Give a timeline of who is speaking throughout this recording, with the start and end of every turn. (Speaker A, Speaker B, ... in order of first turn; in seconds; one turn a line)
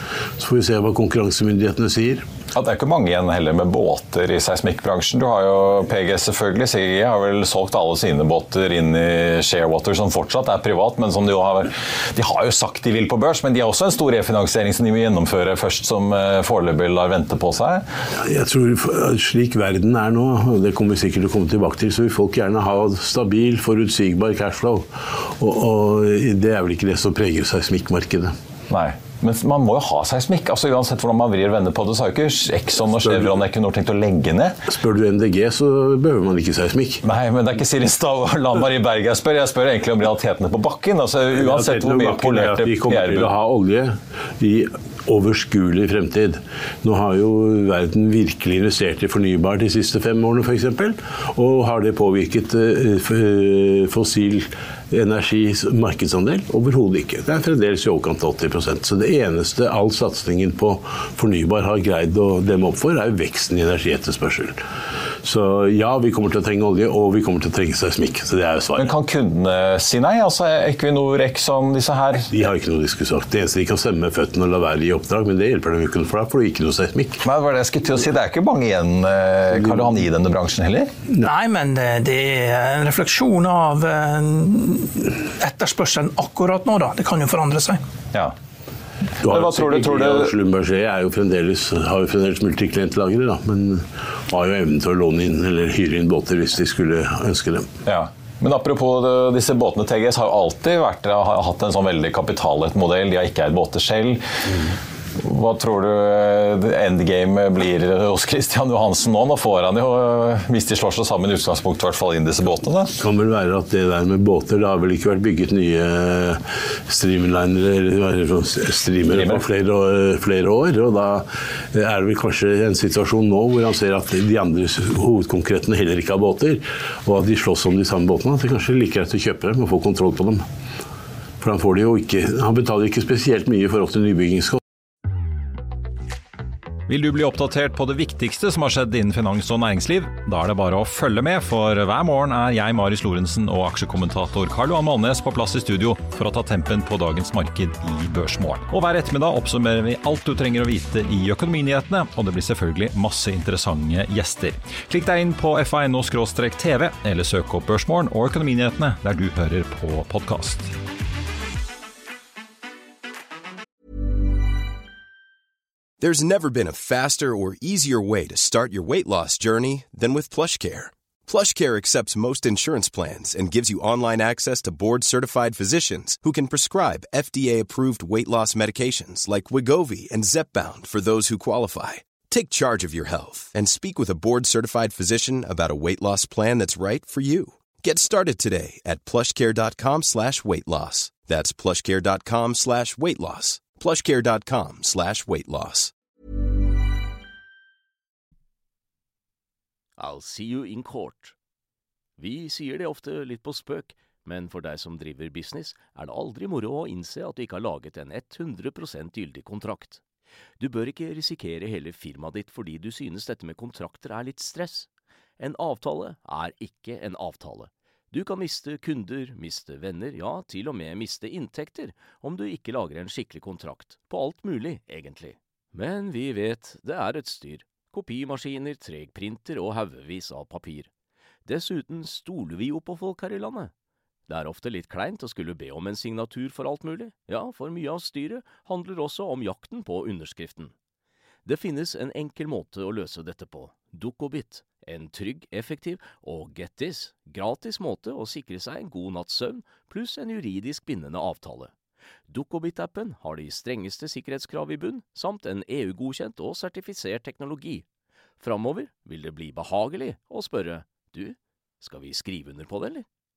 Speaker A: 0.4-2.2
Speaker B: 2.5-17.9
Speaker A: 18.2-28.3
Speaker B: 28.7-34.6
Speaker A: 34.7-37.0
Speaker B: 37.0-43.3
Speaker A: 41.4-64.6
Speaker A: 65.2-68.9
Speaker B: 68.8-72.3
Speaker A: 72.3-77.2
Speaker B: 77.2-80.9
Speaker C: 81.2-87.8
Speaker A: 89.2-97.7
Speaker B: 89.2-90.3
Speaker B: 97.9-104.2
Speaker B: 105.2-112.9
Speaker A: 113.0-130.4
Speaker B: 119.1-119.4
Speaker A: 131.4-134.6
Speaker B: 136.9-160.7
Speaker D: 166.0-195.9
Speaker E: 200.0-201.3
Speaker E: 202.2-210.0
Speaker E: 210.6-214.9
Speaker E: 215.4-230.9
Speaker E: 231.4-233.7
Speaker E: 234.3-240.7
Speaker E: 241.5-251.7
Speaker E: 252.3-257.9
Speaker E: 258.4-263.1